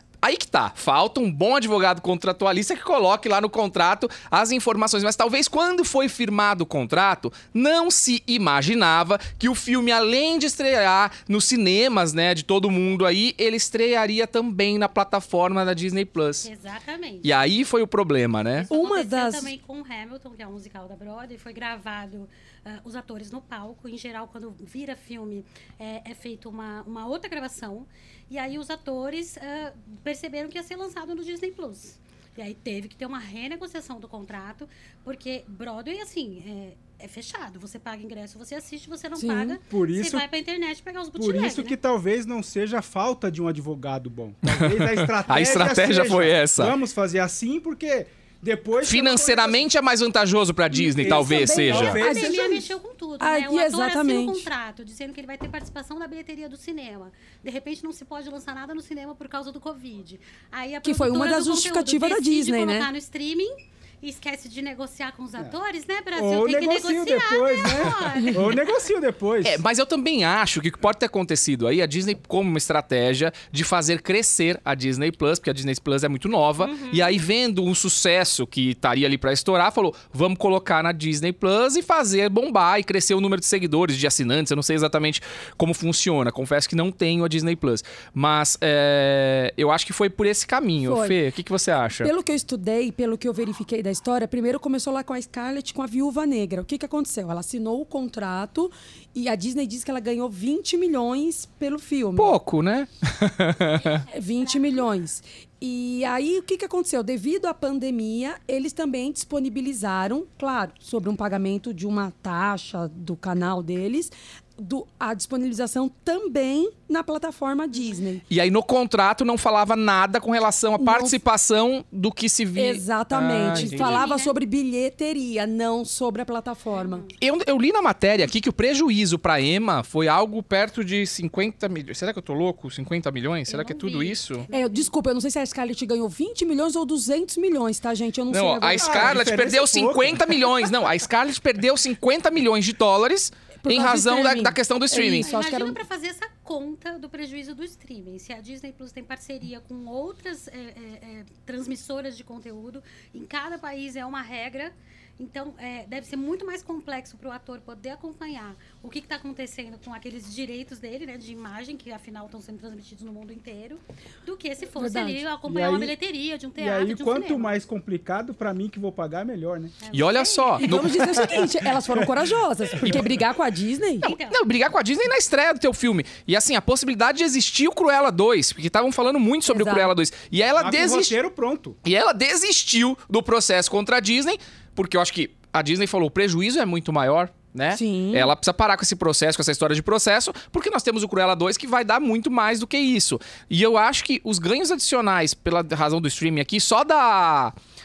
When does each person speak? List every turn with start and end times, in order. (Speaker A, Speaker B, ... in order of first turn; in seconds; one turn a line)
Speaker A: 0.2-16.5
Speaker B: 16.4-17.3
Speaker A: 17.2-18.7
Speaker B: 18.6-41.8
Speaker C: 18.7-19.5
Speaker C: 39.2-39.6
Speaker D: 39.7-40.3
Speaker D: 41.2-49.6
Speaker A: 44.5-46.8
Speaker A: 48.8-52.0
Speaker C: 50.7-52.7
Speaker D: 51.0-52.6
Speaker B: 51.7-68.7
Speaker C: 53.2-54.5
Speaker C: 60.8-62.9
Speaker D: 66.2-69.6
Speaker A: 69.4-92.1
Speaker B: 76.6-77.2
Speaker C: 90.8-91.2
Speaker C: 92.0-102.4
Speaker A: 102.2-104.0
Speaker C: 104.1-118.2
Speaker B: 117.7-118.0
Speaker A: 118.3-124.0
Speaker C: 120.8-121.2
Speaker C: 122.6-127.1
Speaker B: 123.5-124.3
Speaker B: 126.7-127.2
Speaker A: 127.2-134.5
Speaker B: 133.5-134.9
Speaker C: 134.5-139.2
Speaker A: 138.3-145.3
Speaker D: 138.8-140.6
Speaker C: 143.6-145.8
Speaker B: 145.1-167.5
Speaker C: 164.8-165.2
Speaker D: 165.5-165.9
Speaker D: 166.6-169.8
Speaker B: 169.8-171.4
Speaker A: 169.9-171.3
Speaker C: 170.6-174.1
Speaker D: 171.4-173.1
Speaker B: 174.0-174.4
Speaker A: 174.0-181.2
Speaker C: 179.5-179.9
Speaker D: 180.6-181.8
Speaker A: 181.8-197.6
Speaker C: 187.7-188.3